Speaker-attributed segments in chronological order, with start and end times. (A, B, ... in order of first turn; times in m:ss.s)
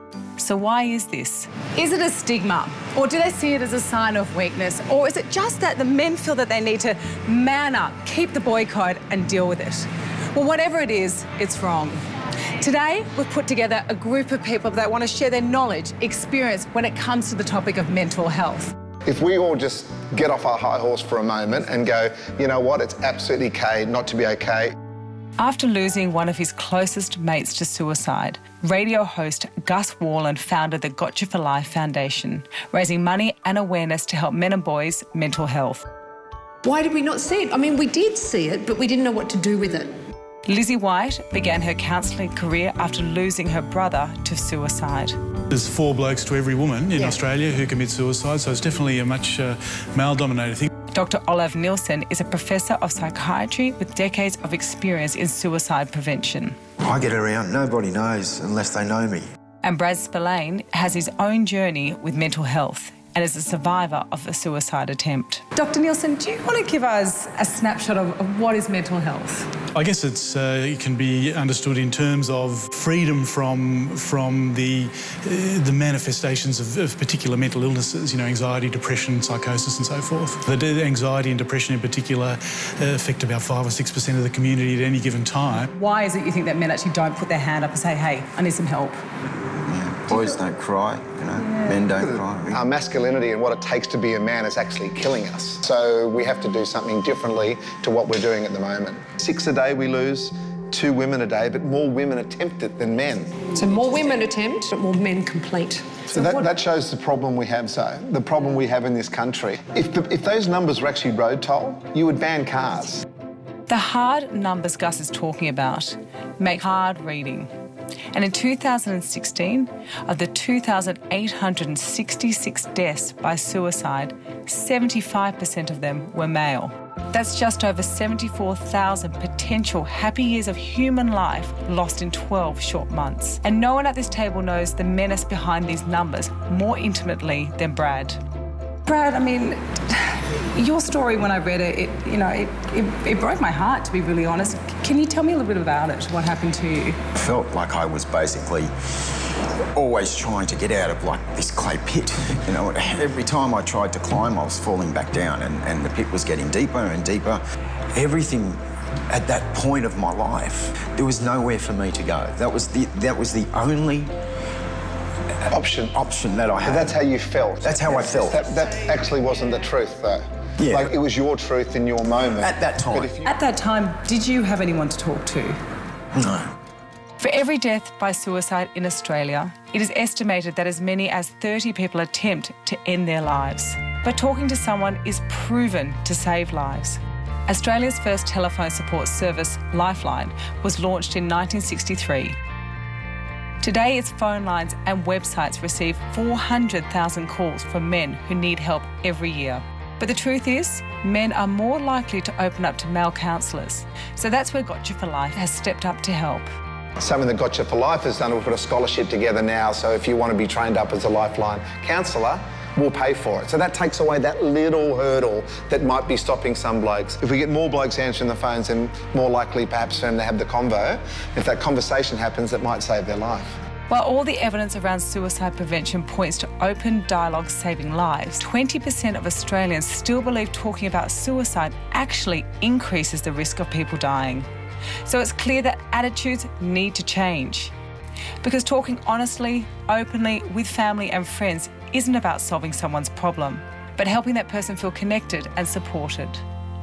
0:00.4-0:12.0 A
0:12.6-0:18.7 A
0:19.0-0:24.7 B
0:25.4-0:35.8 A
0:36.6-0:39.9 C
0:40.4-0:45.2 A
0:45.5-0:50.7 D
0:50.9-0:56.6 A
0:56.8-0:59.3 E
0:59.6-1:09.5 A
1:09.7-1:25.7 D
1:25.6-1:29.0 A
1:29.6-1:32.6 E
1:30.1-1:30.4 A
1:31.4-1:31.8 A
1:32.5-1:43.4 B
1:43.5-1:46.4 C
1:46.1-1:53.0 B
1:53.7-1:57.5 A
1:58.1-2:18.2 A
2:18.8-2:27.0 A
2:27.2-2:28.7 E
2:29.8-2:37.4 E
2:37.9-2:38.6 E
2:39.1-2:44.1 E
2:45.5-2:46.0 B
2:45.9-2:47.0 E
2:46.6-2:53.3 B
2:47.6-2:48.7 E
2:50.6-2:50.9 E
2:52.4-2:53.1 E
2:53.2-2:55.6 A
2:56.2-2:56.5 E
2:57.2-3:12.4 A
3:13.6-3:26.5 A
3:27.0-3:43.5 B
3:43.9-3:54.5 A
3:55.0-3:57.7 A
3:58.4-4:06.4 A